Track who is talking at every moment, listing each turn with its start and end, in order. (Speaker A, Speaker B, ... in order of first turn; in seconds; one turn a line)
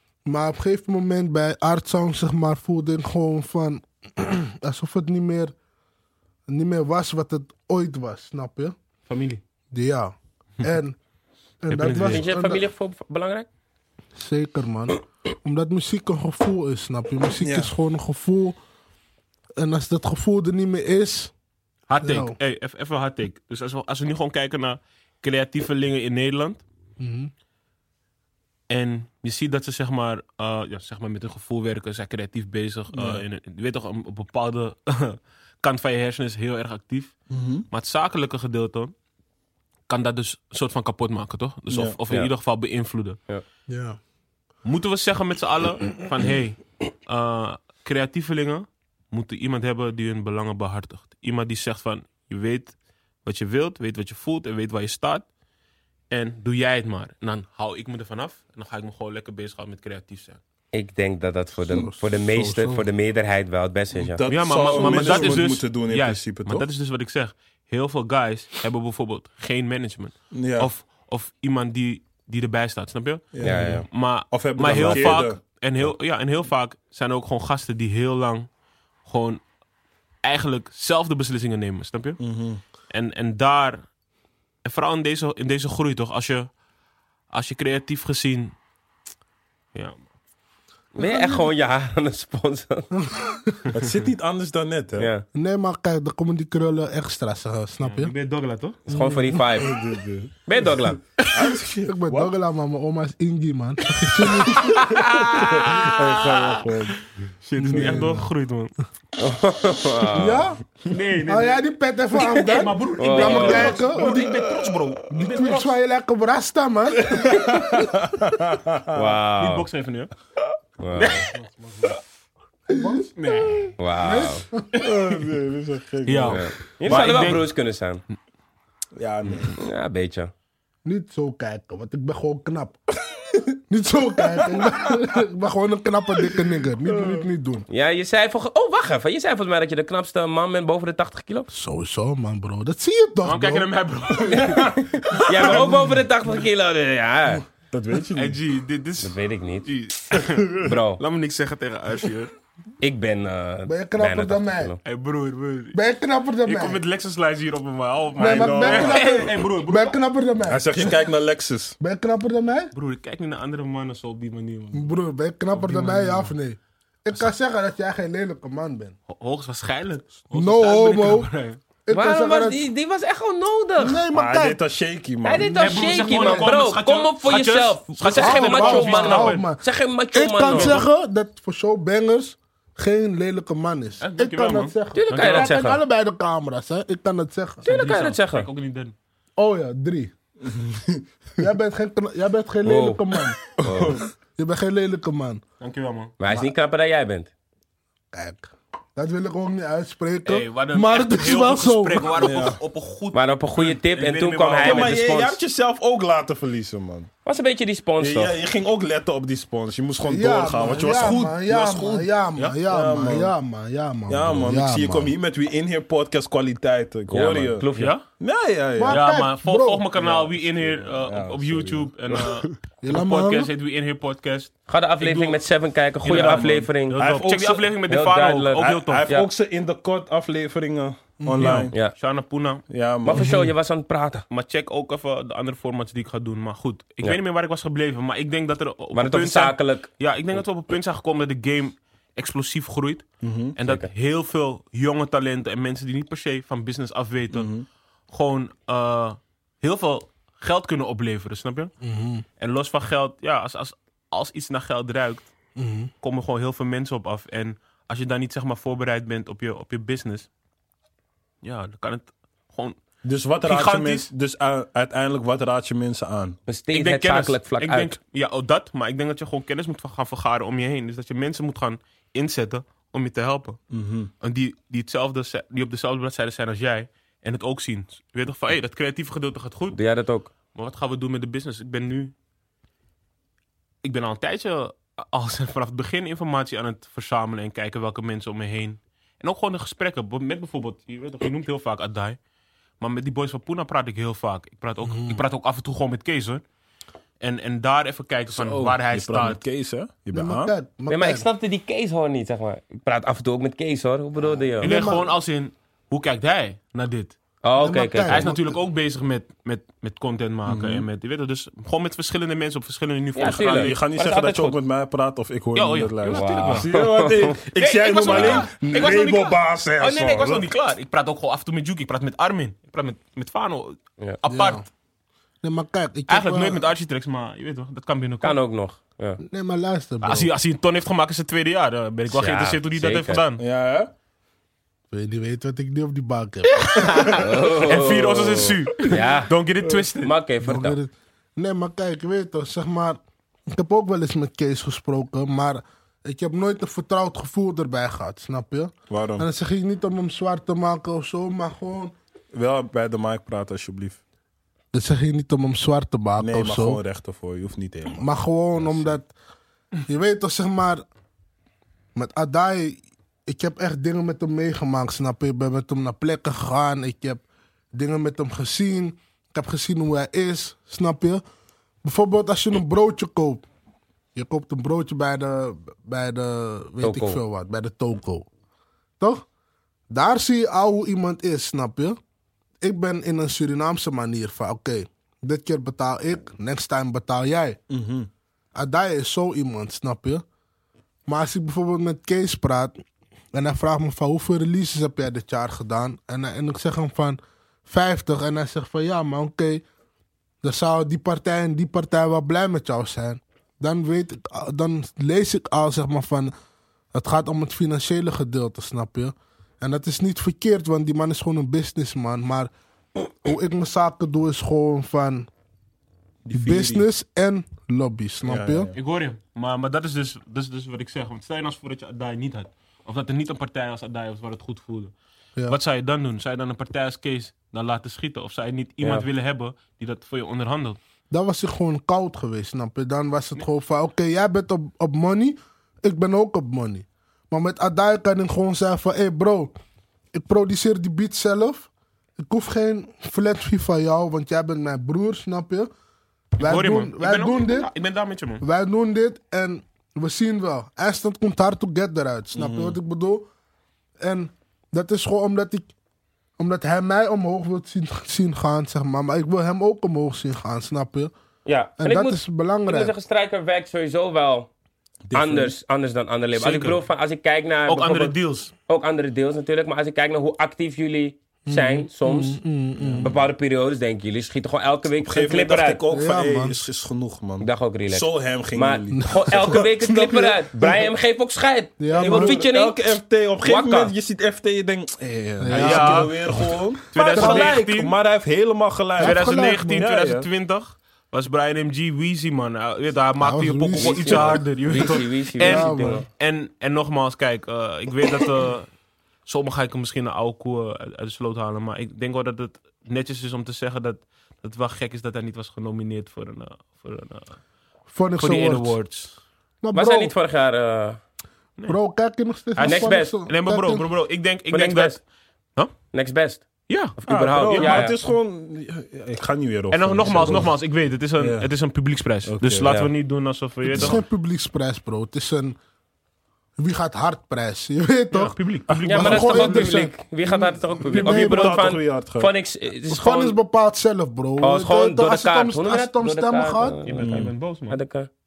Speaker A: 0.3-5.5
Speaker A: 6.5-8.8
Speaker B: 9.1-9.4
Speaker A: 9.7-11.0
Speaker A: 11.6-12.6
Speaker B: 11.7-12.2
Speaker C: 12.0-13.5
Speaker A: 14.2-18.6
Speaker D: 17.4-17.7
Speaker A: 19.6-21.3
Speaker B: 21.9-26.6
Speaker A: 22.0-22.4
Speaker A: 27.0-27.3
Speaker B: 28.7-37.2
Speaker D: 32.9-33.2
Speaker D: 37.3-37.7
Speaker B: 37.7-38.9
Speaker B: 39.9-43.2
Speaker D: 41.7-42.0
Speaker A: 43.7-44.0
Speaker B: 44.6-55.2
Speaker B: 56.1-60.4
Speaker C: 60.7-64.2
Speaker A: 61.7-62.9
Speaker D: 63.9-66.7
Speaker B: 64.3-78.5
Speaker A: 64.7-65.4
Speaker D: 70.3-70.7
Speaker D: 73.3-75.4
Speaker C: 73.4-73.9
Speaker C: 74.7-75.2
Speaker B: 79.0-79.4
Speaker B: 80.2-82.2
Speaker D: 82.2-82.6
Speaker B: 82.9-83.9
Speaker B: 84.6-86.5
Speaker B: 87.3-88.5
Speaker C: 91.0-92.9
Speaker A: 91.0-91.4
Speaker A: 92.9-93.6
Speaker D: 93.7-95.1
Speaker C: 95.0-95.2
Speaker A: 95.3-98.1
Speaker B: 97.8-98.8
Speaker A: 98.9-99.6
Speaker C: 98.9-99.7
Speaker D: 99.5-100.3
Speaker C: 100.5-101.0
Speaker D: 101.3-102.3
Speaker A: 101.9-104.8
Speaker B: 104.2-106.7
Speaker D: 104.7-108.2
Speaker B: 107.5-108.7
Speaker A: 107.6-108.3
Speaker C: 109.2-110.5
Speaker A: 110.1-110.6
Speaker B: 110.8-115.7
Speaker A: 111.2-114.3
Speaker C: 113.0-113.8
Speaker D: 114.0-114.4
Speaker A: 115.1-117.9
Speaker D: 117.0-119.1
Speaker C: 118.9-119.7
Speaker B: 119.4-120.1
Speaker C: 120.8-121.3
Speaker B: 121.0-122.0
Speaker A: 122.7-123.1
Speaker B: 122.8-123.8
Speaker C: 123.8-124.5
Speaker A: 124.0-124.7
Speaker B: 124.8-125.2
Speaker D: 124.8-127.1
Speaker B: 126.1-127.5
Speaker C: 126.3-128.0
Speaker D: 129.0-129.6
Speaker C: 129.6-130.3
Speaker A: 130.8-132.8
Speaker A: 133.7-137.7
Speaker D: 136.9-137.2
Speaker C: 137.7-141.5
Speaker A: 141.5-143.7
Speaker B: 143.2-145.8
Speaker C: 144.3-147.4
Speaker D: 147.7-148.4
Speaker B: 148.1-152.3
Speaker C: 149.0-149.7
Speaker C: 150.6-151.0
Speaker C: 152.8-154.8
Speaker A: 153.7-154.7
Speaker B: 154.8-155.8
Speaker A: 155.7-156.8
Speaker B: 156.4-160.0
Speaker A: 158.2-161.0
Speaker D: 158.2-159.2
Speaker D: 160.5-161.8
Speaker A: 161.8-162.7
Speaker B: 162.7-165.0
Speaker A: 164.7-168.9
Speaker B: 165.5-166.3
Speaker B: 169.1-171.6
Speaker A: 170.3-171.3
Speaker A: 171.9-172.7
Speaker C: 171.9-174.0
Speaker A: 173.8-174.6
Speaker D: 174.1-175.6
Speaker C: 175.2-180.8
Speaker A: 175.3-176.5
Speaker B: 175.6-179.4
Speaker A: 178.2-179.6
Speaker A: 180.1-187.7
Speaker B: 180.5-180.8
Speaker B: 184.0-185.6
Speaker C: 184.9-185.8
Speaker C: 187.7-188.5
Speaker B: 187.7-188.9
Speaker A: 189.4-190.1
Speaker D: 190.4-191.0
Speaker A: 191.4-193.4
Speaker C: 192.7-193.0
Speaker C: 193.6-194.0
Speaker D: 193.6-194.0
Speaker A: 194.4-195.4
Speaker B: 195.6-196.2
Speaker C: 196.2-197.3
Speaker A: 198.1-202.5
Speaker B: 200.3-205.0
Speaker D: 202.2-202.6
Speaker C: 203.1-205.4
Speaker D: 204.6-207.1
Speaker C: 207.2-208.4
Speaker D: 208.0-211.8
Speaker A: 210.0-215.1
Speaker B: 210.8-212.6
Speaker D: 212.7-213.3
Speaker D: 214.1-217.7
Speaker C: 217.1-217.9
Speaker B: 217.8-218.0
Speaker D: 218.2-219.0
Speaker A: 218.8-219.9
Speaker B: 218.9-225.4
Speaker D: 220.0-222.3
Speaker A: 222.8-223.5
Speaker C: 224.7-227.0
Speaker B: 226.0-229.1
Speaker D: 226.1-227.7
Speaker C: 227.9-229.3
Speaker D: 228.6-231.7
Speaker A: 231.2-231.7
Speaker B: 231.4-232.6
Speaker D: 232.7-233.5
Speaker C: 233.0-234.2
Speaker B: 234.3-247.5
Speaker C: 238.9-239.9
Speaker D: 243.2-243.6
Speaker D: 247.3-247.7
Speaker B: 248.1-251.7
Speaker A: 251.8-252.2
Speaker B: 252.4-255.3
Speaker A: 255.6-255.9
Speaker B: 256.0-260.3
Speaker B: 261.4-262.8
Speaker D: 263.0-266.4
Speaker B: 263.4-264.1
Speaker C: 266.5-268.0
Speaker B: 266.7-273.6
Speaker D: 273.7-274.1
Speaker B: 274.2-279.8
Speaker C: 279.7-280.3
Speaker B: 280.6-282.1
Speaker B: 283.8-292.2
Speaker B: 292.8-296.4
Speaker A: 294.9-295.2
Speaker B: 297.2-299.4
Speaker D: 298.3-300.5
Speaker A: 300.1-301.3
Speaker C: 300.9-304.8
Speaker A: 304.6-305.1
Speaker B: 304.6-307.2
Speaker C: 307.4-308.3
Speaker A: 307.6-308.6
Speaker B: 308.1-313.8
Speaker D: 310.5-310.9
Speaker C: 313.1-314.6
Speaker D: 313.2-320.4
Speaker B: 315.6-316.7
Speaker C: 316.1-317.4
Speaker B: 317.6-324.6
Speaker A: 324.3-324.6
Speaker A: 325.4-326.7
Speaker B: 326.1-328.4
Speaker C: 328.2-329.2
Speaker A: 329.2-330.3
Speaker B: 330.0-333.4
Speaker C: 332.1-333.2
Speaker D: 333.4-333.9
Speaker A: 334.9-337.2
Speaker B: 336.5-340.1
Speaker C: 337.1-339.3
Speaker C: 340.0-340.8
Speaker A: 340.4-351.9
Speaker D: 348.9-349.3
Speaker D: 352.3-354.0
Speaker A: 354.7-356.8
Speaker D: 356.2-358.9
Speaker A: 357.9-359.1
Speaker A: 359.9-360.8
Speaker A: 361.9-371.2
Speaker A: 371.8-373.4
Speaker A: 374.1-378.3
Speaker C: 376.8-377.2
Speaker A: 379.9-382.0
Speaker A: 382.6-387.6
Speaker D: 387.7-388.1
Speaker A: 388.6-390.2
Speaker A: 391.1-392.8
Speaker A: 393.3-399.6
Speaker A: 400.4-406.3
Speaker A: 406.9-412.5
Speaker A: 413.2-415.3
Speaker D: 416.2-416.9
Speaker A: 416.3-418.7
Speaker D: 418.2-418.8
Speaker B: 418.8-424.9
Speaker B: 425.5-430.8
Speaker A: 431.1-439.5
Speaker A: 440.1-445.7
Speaker A: 446.4-447.7
Speaker B: 446.4-448.4
Speaker A: 448.4-453.3
Speaker D: 452.4-452.8
Speaker A: 454.0-455.7
Speaker A: 456.4-461.1
Speaker C: 461.4-464.5
Speaker A: 461.8-462.9
Speaker D: 465.1-465.5
Speaker C: 465.1-468.2
Speaker B: 466.4-466.8
Speaker B: 467.7-468.5
Speaker C: 468.7-472.4
Speaker A: 471.5-473.1
Speaker D: 472.8-473.2
Speaker C: 473.0-475.8
Speaker D: 475.0-479.7
Speaker A: 475.9-476.6
Speaker C: 477.4-483.9
Speaker A: 478.9-480.7
Speaker A: 481.8-482.4
Speaker D: 481.9-490.3
Speaker A: 485.4-486.5
Speaker B: 485.5-486.3
Speaker B: 486.9-487.9
Speaker A: 487.1-487.6
Speaker A: 489.0-489.9
Speaker B: 489.0-498.7
Speaker A: 493.2-494.4
Speaker C: 493.8-496.1
Speaker A: 495.4-496.1
Speaker B: 499.3-507.4
Speaker A: 507.9-508.8
Speaker B: 508.2-509.1
Speaker A: 509.6-510.1
Speaker C: 509.7-511.0
Speaker A: 511.7-513.9
Speaker B: 512.6-515.0
Speaker C: 512.6-513.1
Speaker C: 514.5-515.0
Speaker C: 515.9-516.4
Speaker B: 516.7-518.0
Speaker C: 517.0-518.0
Speaker D: 517.1-520.5
Speaker B: 519.7-524.0
Speaker D: 521.2-521.5
Speaker D: 522.3-522.7
Speaker C: 522.6-522.9
Speaker A: 523.7-525.6
Speaker A: 526.6-528.4
Speaker B: 528.1-529.8
Speaker D: 528.7-529.4
Speaker C: 528.9-533.4
Speaker A: 528.9-531.7
Speaker D: 530.9-532.3
Speaker A: 532.9-536.8
Speaker C: 534.4-537.1
Speaker B: 536.9-537.8
Speaker D: 537.0-537.3
Speaker C: 537.7-538.1